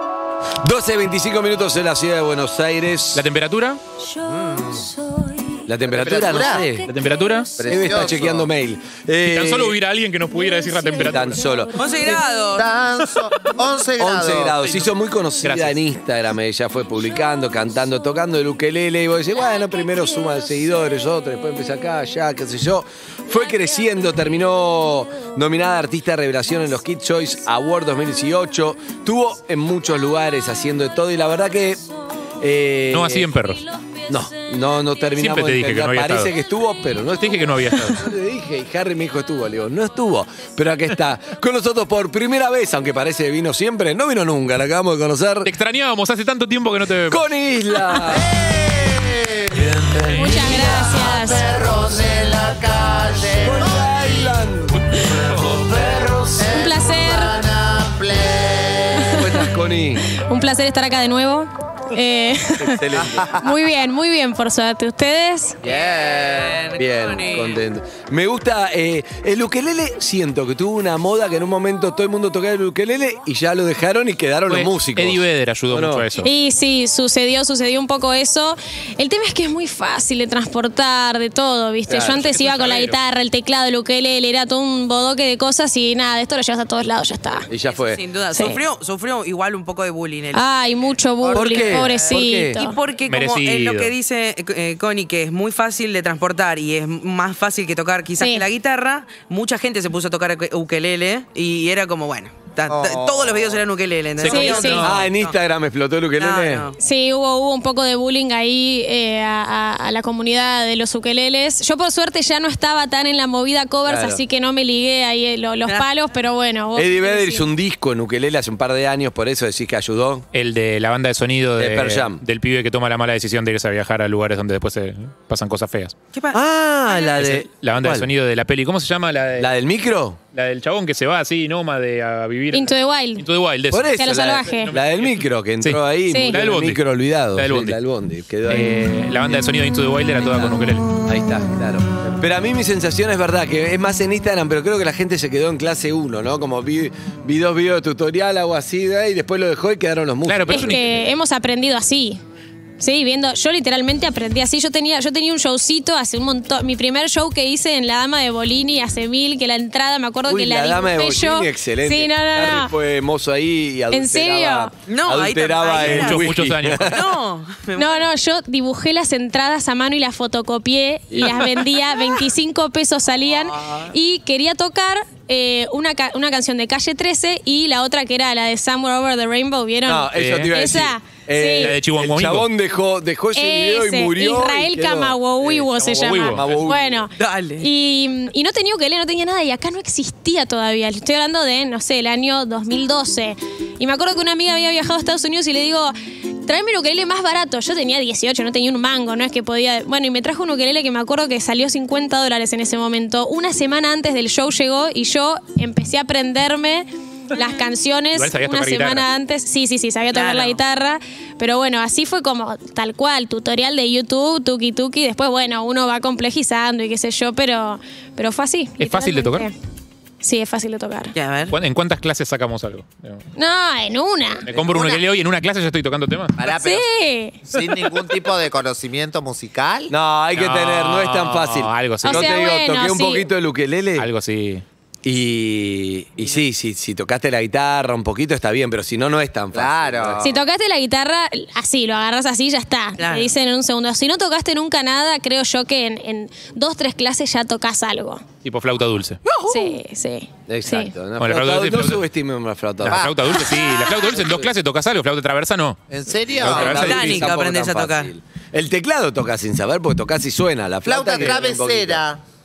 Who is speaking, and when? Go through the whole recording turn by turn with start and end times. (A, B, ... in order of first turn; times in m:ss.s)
0:00.6-0:03.2 A
0:03.1-0:03.8 B
0:04.0-0:08.0 C
0:05.7-0:06.9 A
0:05.9-0:06.7 D
0:06.8-0:07.5 B
0:07.6-0:08.5 D
0:07.6-0:09.8 A
0:09.2-0:11.3 B
0:10.3-0:12.6 C
0:11.0-0:11.8 A
0:11.7-0:12.6 E
0:12.0-0:14.5 D
0:14.0-0:31.8 A
0:14.6-0:14.9 B
0:15.4-0:15.8 B
0:19.4-0:20.7 C
0:23.3-0:25.6 C
0:26.8-0:27.1 C
0:30.9-0:35.5 C
0:32.4-0:33.3 A
0:32.9-0:33.6 B
0:34.1-0:45.5 A
0:35.2-0:36.3 B
0:36.6-0:37.6 C
0:37.1-0:38.1 B
0:45.4-0:47.2 B
0:47.1-0:48.4 A
0:48.1-0:49.7 D
0:49.6-0:50.7 A
0:50.1-0:51.5 C
0:50.3-0:54.4 D
0:53.4-0:55.0 A
0:55.0-0:59.4 D
0:56.5-0:57.4 C
0:59.0-0:59.4 C
0:59.1-1:00.0 A
1:00.0-1:05.6 C
1:02.6-1:03.3 A
1:05.6-1:06.6 D
1:05.7-1:07.6 E
1:06.7-1:16.1 A
1:14.5-1:16.3 B
1:16.2-1:27.5 C
1:21.9-1:22.2 A
1:22.0-1:23.0 B
1:27.5-1:28.0 A
1:27.7-1:30.4 E
1:28.3-1:28.6 C
1:30.3-1:32.8 C
1:31.2-1:32.2 D
1:31.3-1:32.6 A
1:32.4-1:45.3 E
1:33.1-1:33.9 B
1:38.2-1:38.4 C
1:42.7-1:43.6 D
1:44.2-1:45.0 B
1:44.2-1:44.8 C
1:44.8-1:46.7 A
1:46.2-1:46.8 E
1:46.8-1:57.5 C
1:53.8-1:54.2 A
1:56.8-2:00.2 A
2:00.3-2:05.9 B
2:01.6-2:02.2 A
2:06.1-2:07.0 E
2:06.3-2:08.1 A
2:07.2-2:09.5 B
2:09.4-2:10.2 A
2:10.3-2:13.9 B
2:12.5-2:13.2 C
2:13.7-2:18.8 A
2:14.0-2:14.7 C
2:14.5-2:16.8 B
2:16.1-2:16.4 C
2:17.3-2:17.8 B
2:18.5-2:20.8 B
2:20.2-2:30.8 A
2:30.2-2:30.8 B
2:30.5-2:32.2 C
2:32.8-2:42.7 C
2:40.2-2:47.0 A
2:43.9-2:44.7 C
2:44.9-2:46.3 E
2:45.8-2:47.0 B
2:46.9-2:48.0 E
2:47.8-3:01.8 C
2:51.1-2:51.4 A
2:53.5-2:53.9 E
2:59.8-3:05.2 A
3:00.2-3:00.5 B
3:01.6-3:02.5 B
3:03.3-3:39.5 C
3:05.6-3:06.7 B
3:06.3-3:06.9 A
3:07.2-3:07.6 E
3:28.1-3:29.0 B
3:30.1-3:30.6 E
3:38.8-3:39.4 B
3:40.2-3:41.1 C
3:41.1-3:41.6 E
3:41.5-3:43.2 B
3:43.4-3:44.5 C
3:44.5-3:46.4 B
3:44.5-3:45.0 D
3:46.4-3:46.8 D
3:46.5-3:47.4 C
3:47.5-3:49.9 D
3:49.9-3:54.1 A
3:50.4-3:52.3 B
3:52.0-3:53.2 C
3:54.0-3:54.6 B
3:55.0-4:00.4 A
3:59.5-4:00.4 D
4:00.2-4:08.2 C
4:03.0-4:03.3 E
4:08.4-4:09.2 B
4:09.2-4:09.8 E
4:09.5-4:10.9 C
4:10.5-4:13.1 A
4:11.2-4:12.0 B
4:12.8-4:15.8 B
4:12.8-4:13.2 D
4:15.9-4:17.2 D
4:16.4-4:17.3 B
4:16.4-4:22.0 A
4:16.5-4:18.1 E
4:20.8-4:22.2 D